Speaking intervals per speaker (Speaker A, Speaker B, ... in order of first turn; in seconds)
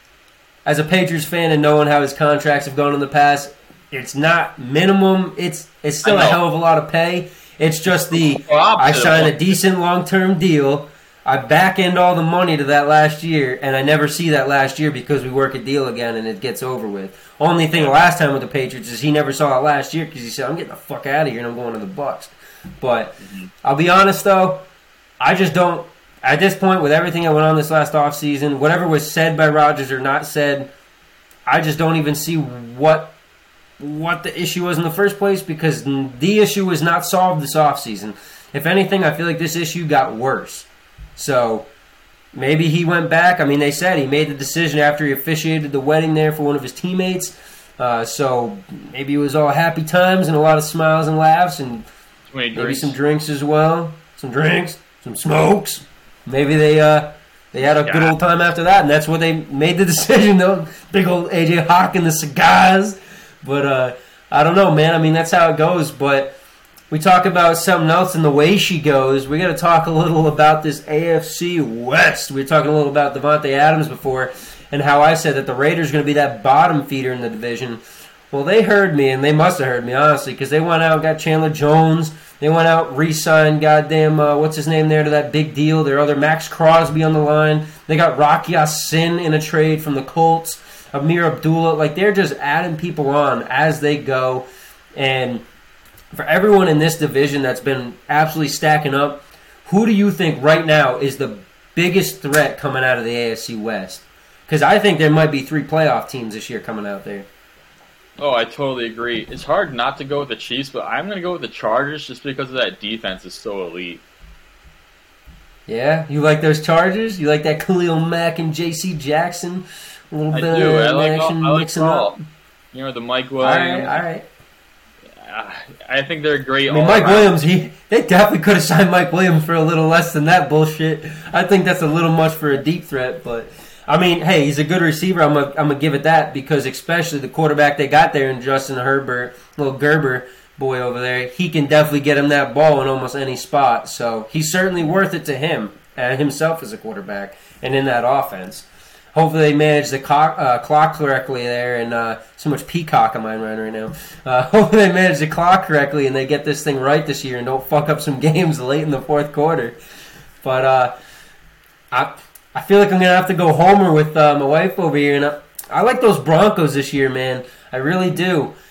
Speaker A: 0.7-24.6, 25.2-30.7, 31.5-33.1, 33.8-41.7, 42.4-51.9, 52.5-66.4, 66.9-77.8, 78.3-95.4, 96.1-107.3, 115.7-122.2, 123.4-124.3, 126.7-159.8, 160.4-160.9, 161.9-168.5
Speaker B: 6.0-6.4, 8.1-9.5, 23.2-23.5, 52.3-53.0, 57.8-58.2, 108.2-114.0, 120.3-122.2, 122.7-124.0, 125.0-127.4